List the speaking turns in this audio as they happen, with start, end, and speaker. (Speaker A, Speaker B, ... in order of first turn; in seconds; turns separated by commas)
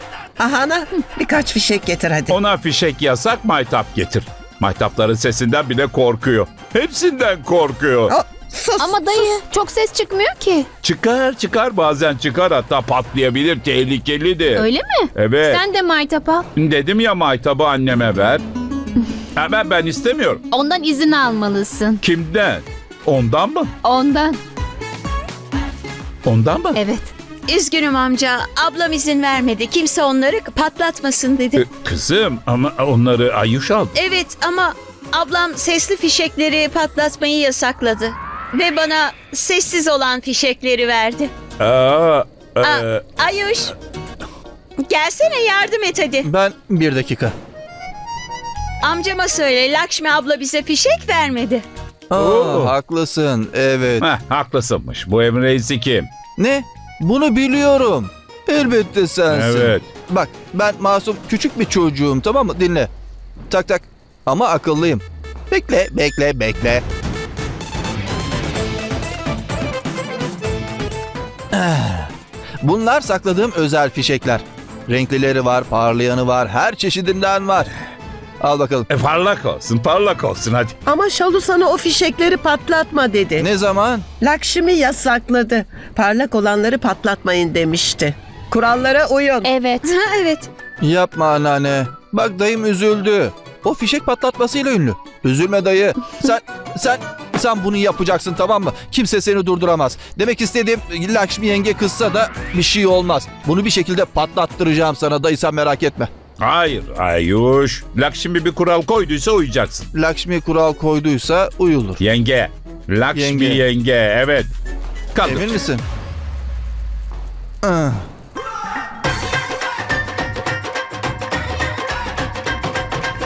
Speaker A: 0.4-2.4, Speaker B: 2.3-8.1, Speaker A: 8.1-9.4, Speaker C: 8.8-10.7, Speaker B: 10.8-15.6, Speaker C: 14.6-16.4, Speaker B: 16.6-18.4, Speaker B: 19.4-20.4, Speaker C: 20.5-22.0, Speaker B: 22.0-23.7, Speaker C: 23.8-24.4, Speaker B: 26.2-26.8, Speaker C: 26.8-27.1, Speaker D: 27.5-31.6, Speaker B: 31.6-33.9, Speaker D: 34.0-41.3, Speaker B: 41.6-43.0, Speaker D: 42.6-43.7, Speaker D: 44.8-46.3, Speaker E: 46.2-47.3, Speaker D: 48.8-51.6, Speaker E: 52.1-54.0, Speaker B: 52.1-52.7, Speaker B: 54.0-56.1, Speaker E: 56.4-62.9, Speaker B: 59.3-59.9, Speaker E: 63.5-66.8, Speaker E: 71.5-72.1, Speaker E: 72.6-77.7, Speaker E: 78.4-78.9, Speaker B: 78.9-80.7, Speaker A: 80.9-83.5, Speaker E: 83.4-84.0, Speaker A: 84.2-89.5, Speaker C: 89.5-89.8, Speaker D: 90.0-90.5, Speaker E: 90.8-106.1, Speaker B: 106.4-109.9, Speaker E: 109.9-112.0, Speaker B: 112.0-114.5, Speaker E: 113.1-113.6, Speaker B: 115.1-115.5, Speaker E: 115.2-115.8, Speaker E: 117.6-118.0